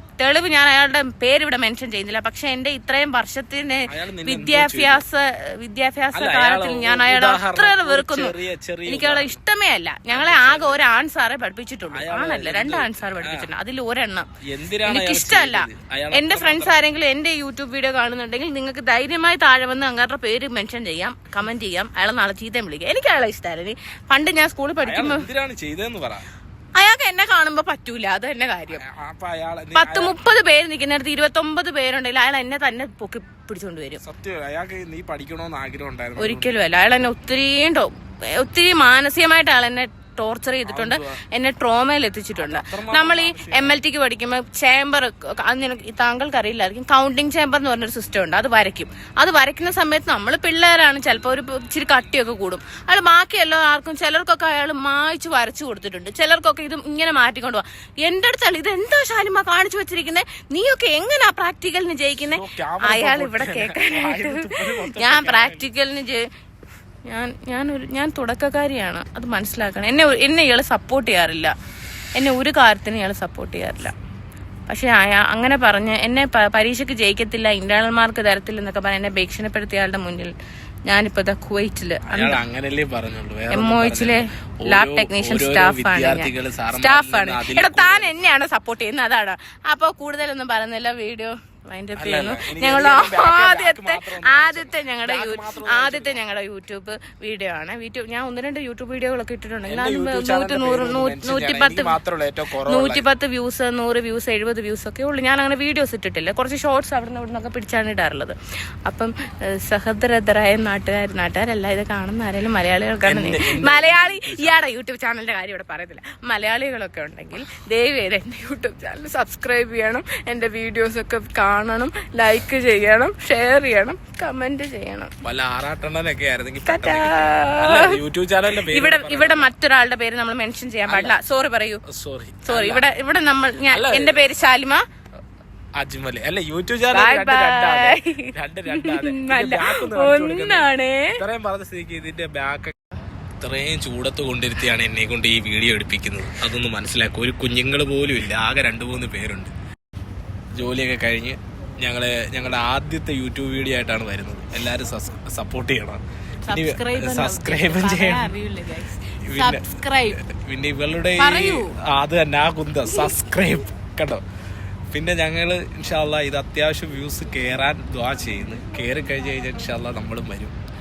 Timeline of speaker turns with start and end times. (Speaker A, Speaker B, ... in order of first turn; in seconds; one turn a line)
Speaker A: 0.2-8.3
Speaker B: 3.9-5.0
Speaker B: 6.1-9.4
Speaker A: 8.9-14.3
Speaker B: 10.1-10.8
Speaker B: 11.9-13.5
Speaker B: 14.4-16.8
Speaker A: 14.8-25.3
Speaker B: 24.8-26.2
Speaker A: 26.8-28.8
Speaker B: 28.8-30.2
Speaker A: 29.8-34.0
Speaker B: 34.0-36.6
Speaker A: 36.2-66.3
Speaker B: 40.6-41.2
Speaker B: 42.4-43.8
Speaker B: 62.3-65.7
Speaker A: 67.1-71.5
Speaker A: 72.2-73.9
Speaker A: 74.7-80.3
Speaker A: 80.9-82.4
Speaker B: 82.1-88.3
Speaker A: 83.5-102.0
Speaker B: 92.0-96.2
Speaker B: 99.7-103.0
Speaker A: 102.7-125.1
Speaker B: 113.1-114.6
Speaker B: 125.2-129.5
Speaker A: 126.7-131.8
Speaker B: 130.8-131.2
Speaker B: 131.9-132.9
Speaker A: 132.4-134.8
Speaker B: 133.7-134.3
Speaker B: 135.8-142.8
Speaker A: 136.9-141.2
Speaker B: 143.4-149.5
Speaker B: 150.5-158.3
Speaker A: 156.4-160.2
Speaker B: 159.3-164.2
Speaker A: 161.2-161.8
Speaker A: 162.9-163.2
Speaker B: 164.9-170.6